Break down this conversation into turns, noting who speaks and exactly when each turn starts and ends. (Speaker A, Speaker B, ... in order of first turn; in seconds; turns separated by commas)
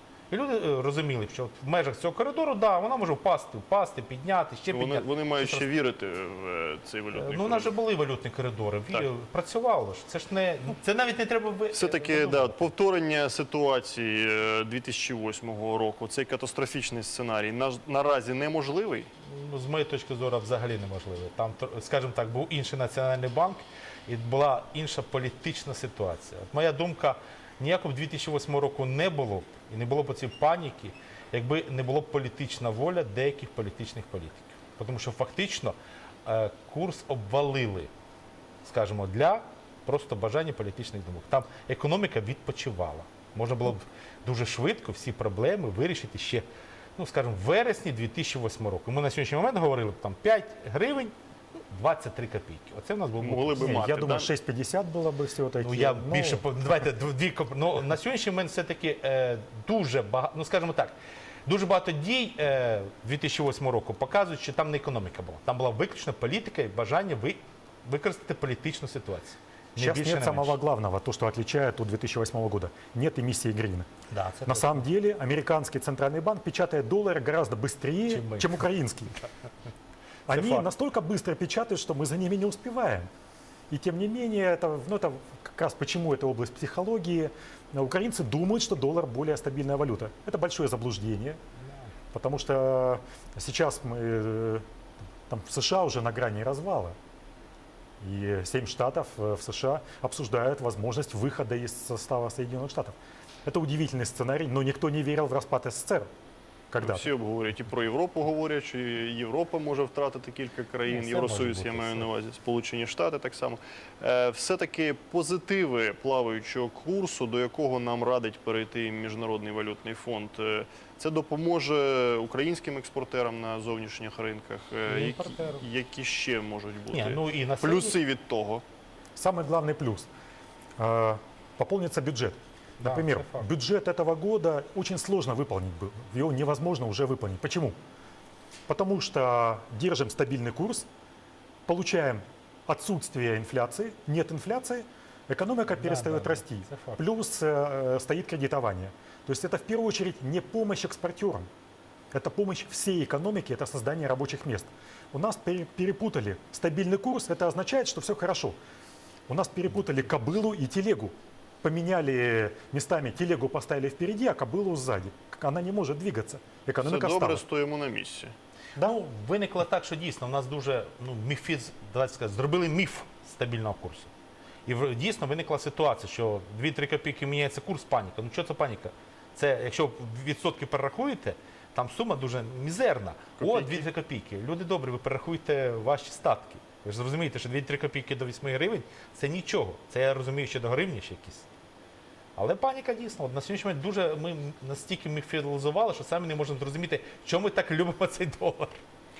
Speaker A: 0.3-5.7, Speaker B: 4.7-7.7, Speaker A: 7.1-12.7, Speaker B: 11.7-19.1, Speaker A: 19.2-37.9, Speaker A: 38.6-46.5, Speaker A: 47.0-51.1, Speaker A: 51.7-53.8, Speaker B: 53.2-54.3, Speaker C: 53.6-56.5, Speaker A: 55.6-60.9, Speaker A: 61.5-70.5, Speaker C: 69.8-73.9, Speaker A: 74.1-74.9, Speaker C: 74.5-79.2, Speaker A: 78.1-78.6, Speaker C: 80.3-83.1, Speaker A: 80.3-80.7, Speaker C: 83.7-91.4, Speaker A: 91.6-91.9, Speaker C: 92.1-94.7, Speaker C: 95.3-97.0, Speaker C: 98.0-106.1, Speaker C: 106.7-107.1, Speaker B: 106.8-128.6, Speaker A: 110.9-112.1, Speaker A: 124.9-125.6, Speaker A: 126.9-128.0, Speaker C: 129.2-130.1, Speaker C: 130.8-137.8, Speaker A: 132.8-133.5, Speaker C: 138.7-140.9, Speaker C: 141.7-151.5, Speaker A: 145.7-147.0, Speaker C: 152.1-158.6, Speaker C: 159.3-167.4, Speaker B: 166.8-168.3, Speaker A: 168.8-174.1, Speaker A: 174.7-191.5, Speaker B: 183.4-183.9, Speaker A: 192.4-198.8